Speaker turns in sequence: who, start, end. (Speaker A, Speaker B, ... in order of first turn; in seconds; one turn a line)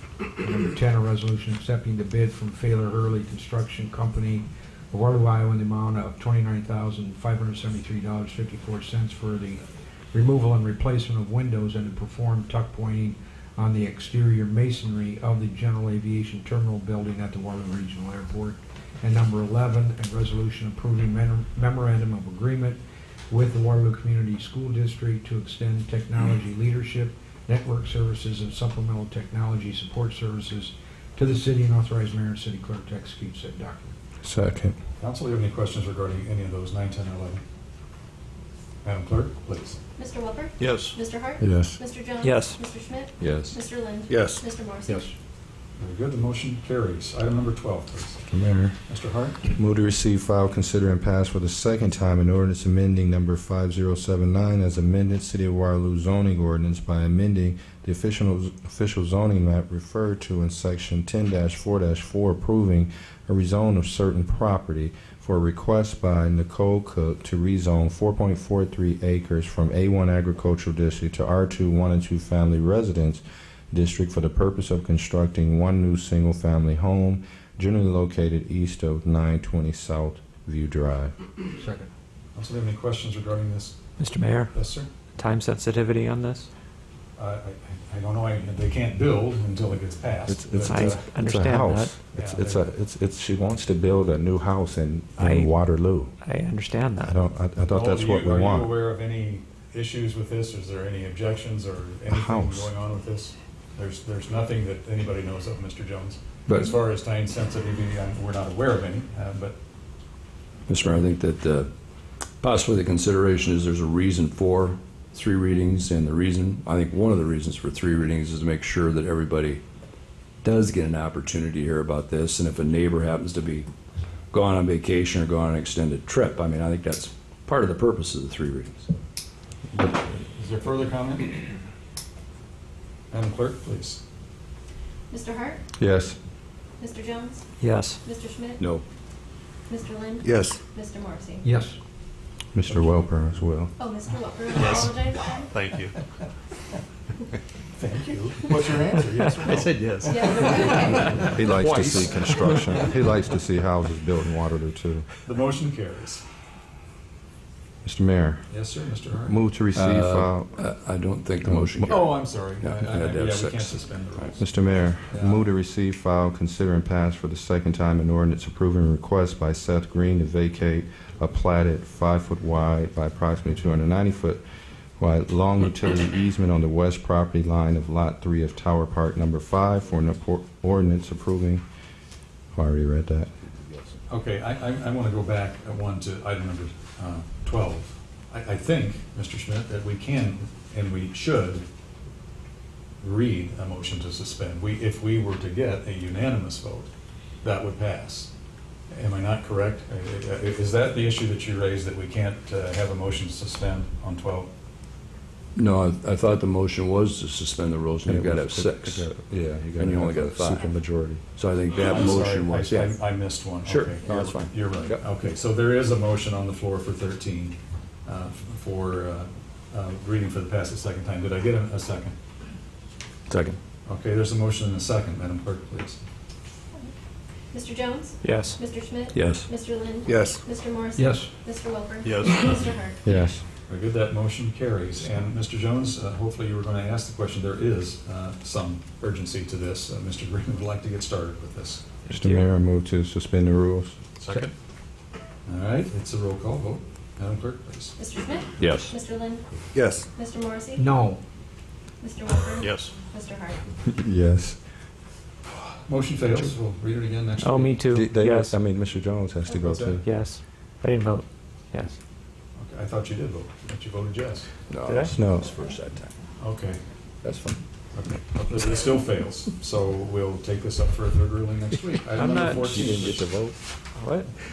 Speaker A: 0.4-34.0
Speaker B: 34.2-34.8
Speaker C: 35.0-37.4
Speaker C: 38.8-39.8
Speaker D: 40.0-45.1
Speaker E: 40.6-41.0
Speaker B: 41.4-41.8
Speaker F: 42.2-42.6
Speaker E: 43.2-43.6
Speaker E: 44.1-44.4
Speaker C: 45.8-48.3
Speaker B: 48.3-48.8
Speaker C: 48.9-49.4
Speaker B: 49.4-81.1
Speaker A: 81.6-81.9
Speaker C: 82.3-83.8
Speaker F: 84.0-84.5
Speaker C: 84.5-84.9
Speaker F: 85.2-86.5
Speaker C: 87.2-91.0
Speaker B: 90.3-96.1
Speaker F: 90.7-91.9
Speaker C: 92.1-92.6
Speaker F: 95.2-95.5
Speaker F: 96.2-97.1
Speaker B: 97.0-98.7
Speaker C: 97.7-109.5
Speaker B: 102.1-102.7
Speaker B: 106.5-106.7
Speaker E: 110.7-111.7
Speaker E: 112.4-119.6
Speaker E: 120.4-123.7
Speaker E: 124.3-128.9
Speaker C: 130.3-131.4
Speaker C: 133.1-134.0
Speaker D: 135.1-135.6
Speaker B: 135.8-136.2
Speaker D: 136.8-138.6
Speaker F: 137.6-138.0
Speaker D: 139.7-141.5
Speaker E: 140.2-140.6
Speaker A: 141.4-141.8
Speaker B: 142.5-143.7
Speaker D: 143.8-145.5
Speaker E: 145.5-145.8
Speaker C: 147.7-151.3
Speaker F: 149.4-152.8
Speaker D: 150.0-151.3
Speaker B: 151.2-155.1
Speaker C: 155.2-156.2
Speaker B: 157.8-158.5
Speaker C: 158.5-159.4
Speaker B: 159.2-160.6
Speaker E: 159.7-164.4
Speaker B: 161.4-162.1
Speaker C: 161.8-164.5
Speaker B: 164.4-174.4
Speaker C: 165.1-165.5
Speaker B: 175.0-181.6
Speaker B: 182.5-183.3
Speaker C: 184.1-191.6
Speaker C: 193.0-196.9
Speaker C: 197.4-198.3
Speaker C: 198.9-204.5
Speaker E: 205.5-209.1
Speaker B: 208.1-211.2
Speaker E: 209.7-210.7
Speaker E: 211.3-213.0
Speaker C: 211.8-222.1
Speaker E: 213.6-215.1
Speaker E: 223.3-223.6
Speaker C: 223.8-226.0
Speaker D: 227.5-233.0
Speaker F: 228.2-228.6
Speaker E: 229.1-229.5
Speaker E: 230.1-230.4
Speaker A: 230.9-231.3
Speaker E: 232.1-232.4
Speaker B: 233.0-233.4
Speaker C: 233.7-241.9
Speaker B: 242.1-243.9
Speaker F: 242.1-242.4
Speaker C: 244.2-244.5
Speaker C: 245.4-247.9
Speaker D: 248.0-250.8
Speaker E: 248.6-248.9
Speaker E: 249.7-250.1
Speaker A: 250.8-251.2
Speaker D: 252.0-253.6
Speaker E: 252.6-252.9
Speaker B: 253.8-254.6
Speaker C: 255.9-257.8
Speaker F: 257.4-258.6
Speaker B: 257.9-260.0
Speaker C: 259.5-260.0
Speaker F: 260.0-261.9
Speaker C: 262.6-264.5
Speaker E: 264.7-266.1
Speaker F: 264.9-265.2
Speaker B: 265.1-265.5
Speaker C: 266.4-266.8
Speaker B: 267.2-267.6
Speaker C: 267.9-273.2
Speaker F: 272.0-273.1
Speaker B: 272.4-273.6
Speaker F: 273.9-274.3